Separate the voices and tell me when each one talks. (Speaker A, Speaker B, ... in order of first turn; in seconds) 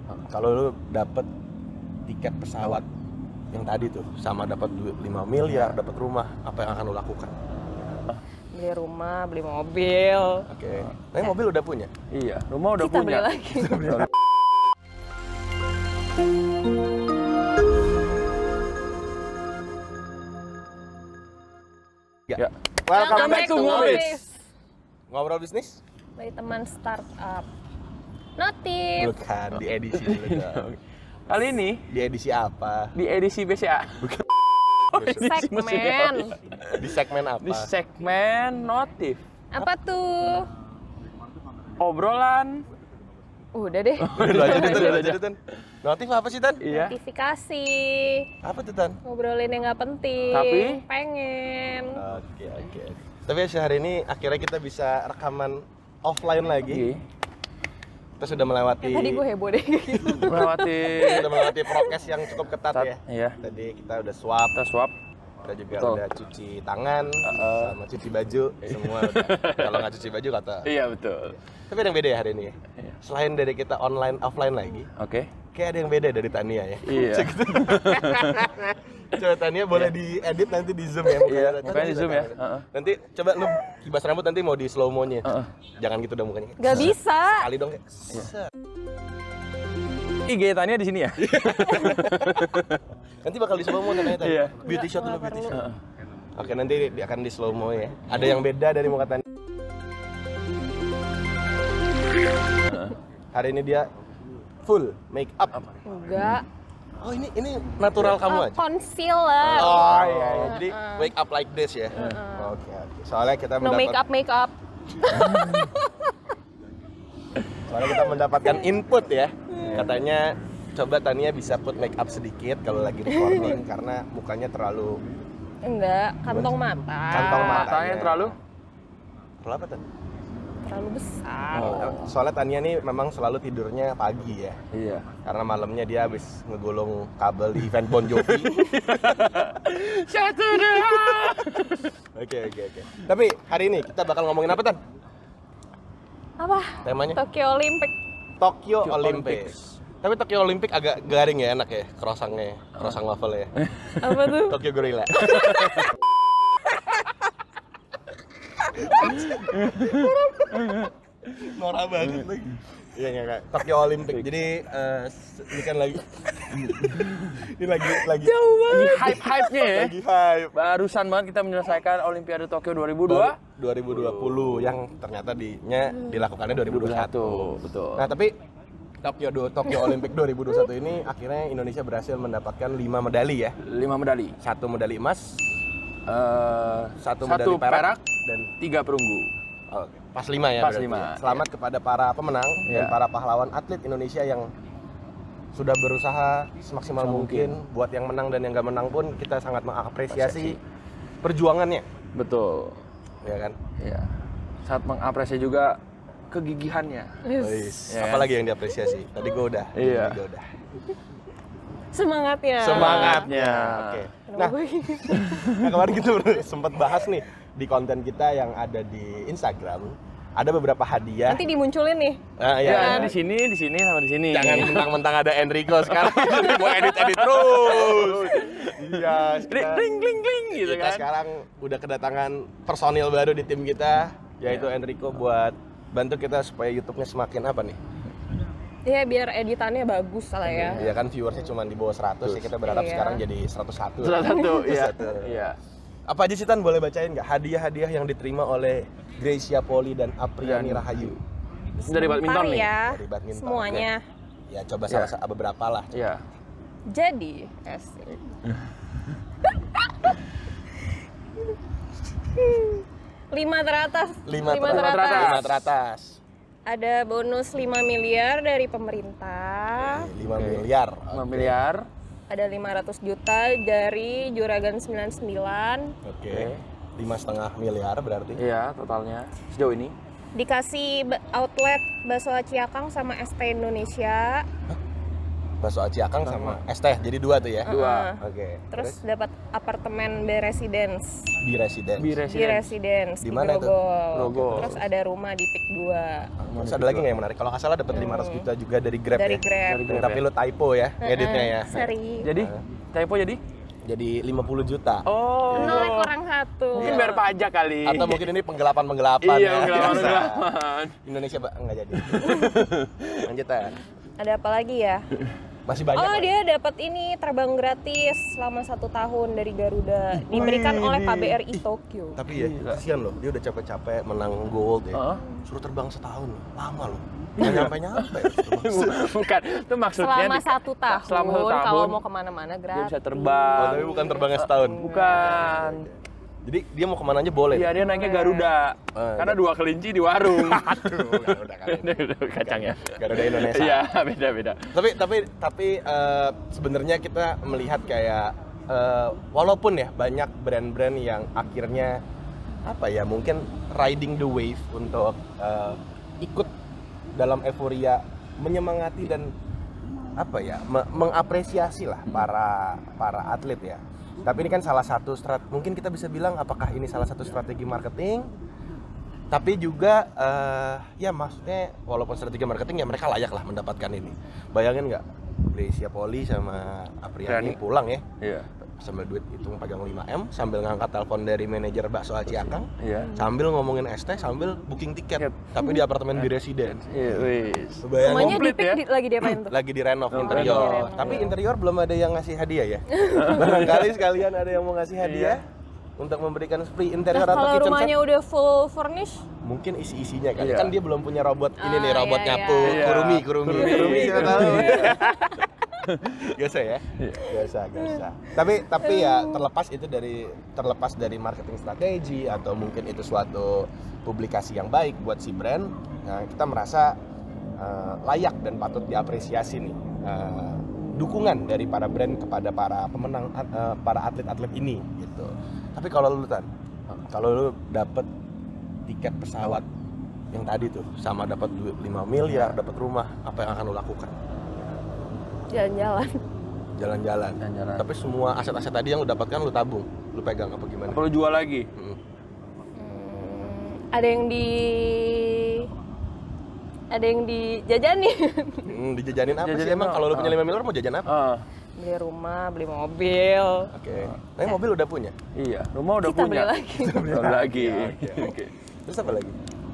Speaker A: 0.2-1.3, 2.0-2.9, 3.5-7.3, 10.5-11.9, 13.6-14.1, 22.3-24.1, 25.1-25.8, 29.0-30.7, 31.9-32.9, 34.9-35.2, 36.7-37.7, 44.1-46.6, 48.4-49.0, 51.9-56.9, 58.2-59.2, 60.9-64.6, 65.4-70.7, 71.7-74.9, 75.5-88.5, 91.2-92.7, 93.2-95.7, 96.3-99.2, 103.3-103.9, 104.6-105.7, 107.0-108.6, 109.4-114.0, 117.7-125.0, 126.3-126.5, 127.1-128.3, 129.4-129.8, 131.6-134.6, 135.2-139.4, 140.6-141.3, 142.1-144.8, 146.8-147.2, 148.4-153.5, 154.5-155.9, 158.6-170.5, 173.1-178.3, 179.0-183.6, 184.4-185.5, 187.0-188.5, 189.7-194.5, 195.5-200.6, 201.2-201.8, 203.2-203.6, 207.4-210.5, 212.6-221.4, 222.4-223.1, 224.3-230.0, 230.5-237.8, 240.8-245.5, 246.1-251.2, 252.8-253.9, 254.5-255.9, 264.2-266.2, 269.8-271.6, 276.0-278.4, 285.6-289.0, 291.4-292.1, 293.2-294.8, 296.4-302.6, 303.9-305.9, 307.8-310.4, 311.0-313.8, 315.6-316.3, 322.1-329.2, 333.6-337.8, 338.9-339.4, 340.2-343.8, 344.7-352.0, 352.6-356.5, 357.1-359.3, 360.2-368.3, 369.3-378.0, 378.8-387.2, 387.8-388.5, 389.4-395.4, 396.0-397.9, 399.4-405.4, 406.0-417.0, 417.6-426.5, 427.1-428.1, 428.9-429.7, 430.3-434.1, 436.8-441.0, 448.6-451.1, 453.7-455.1, 456.8-459.4
Speaker B: 5.5-5.8, 12.1-14.1, 22.4-24.2, 29.5-31.8, 32.9-34.2, 34.9-39.2, 41.8-42.6, 44.0-45.2, 46.6-47.0, 50.3-50.8, 56.6-57.0, 60.2-61.4, 62.7-63.4, 64.5-64.9, 65.7-66.0, 67.2-67.8, 68.6-69.9, 70.6-71.4, 74.9-75.3, 76.8-78.5, 81.2-82.7, 85.2-85.5, 90.2-92.8, 93.7-94.6, 102.6-103.0, 105.5-106.4, 109.5-110.6, 112.0-112.2, 115.2-115.7, 127.3-128.3, 131.5-132.2, 134.7-135.1, 138.1-141.9, 148.8-149.8, 153.6-154.3, 155.2-155.9, 159.1-160.9, 166.6-167.2, 168.7-169.9, 170.5-173.4, 173.9-174.8, 176.6-178.1, 183.6-184.4, 186.1-188.0, 188.6-189.3, 190.6-191.4, 192.6-193.0, 197.0-197.6, 200.1-200.6, 202.1-202.8, 203.8-204.1, 204.6-207.2, 207.9-208.3, 209.7-210.2, 212.7-214.1, 215.2-215.7, 222.6-224.9, 225.8-231.1, 240.4-241.0, 242.2-242.5, 244.0-245.6, 250.4-251.2, 251.8-252.7, 255.9-256.2, 264.6-265.6, 270.3-271.9, 276.3-276.6, 278.4-279.9, 286.2-286.6, 287.7-288.1, 292.0-292.7, 294.1-294.9, 296.5-297.1, 299.7-300.2, 302.2-303.4, 305.1-306.1, 306.7-308.2, 309.2-310.9, 312.0-313.2, 320.2-321.6, 322.3-322.8, 324.9-325.2, 327.4-332.0, 332.7-335.9, 337.5-344.7, 377.3-377.6, 378.2-378.5, 382.2-383.1, 385.2-385.5, 386.2-389.3, 390.1-391.3, 393.1-393.9, 395.0-395.4, 400.4-400.7, 402.6-405.0, 405.9-406.2, 406.9-407.3, 432.3-432.6, 437.4-437.9, 440.9-441.7, 449.3-450.4, 451.1-451.4, 455.3-458.5
Speaker C: 8.5-10.5, 12.8-14.0, 22.9-24.3, 26.2-27.4, 28.4-29.1, 35.1-36.3, 39.5-40.5, 43.5-44.9, 46.7-48.3, 49.0-52.0, 58.8-61.9, 86.6-87.5, 94.6-95.6, 105.8-106.5, 108.0-111.1, 111.9-112.6, 113.6-116.1, 119.5-119.8, 123.1-123.6, 125.6-127.7, 130.6-131.8, 146.4-147.9, 154.0-154.6, 168.1-169.3, 207.2-207.8, 211.9-213.3, 214.3-215.5, 221.3-223.1, 238.8-240.8, 242.6-243.2, 251.8-254.0, 256.9-258.3, 259.4-260.1, 262.4-265.4, 266.6-270.1, 272.3-275.9, 280.3-284.5, 287.7-291.3, 292.3-296.3, 297.9-298.5, 299.1-299.9, 301.0-302.3, 305.5-307.2, 312.2-312.5, 314.2-315.1, 315.9-322.2, 325.1-325.4, 330.0-335.6, 337.7-338.5, 388.0-389.6, 390.1-391.3, 392.9-393.4, 397.1-399.2, 401.6-405.5, 408.7-409.4, 435.5-436.2, 442.8-445.7, 446.9-448.7, 451.8-453.7, 456.0-457.2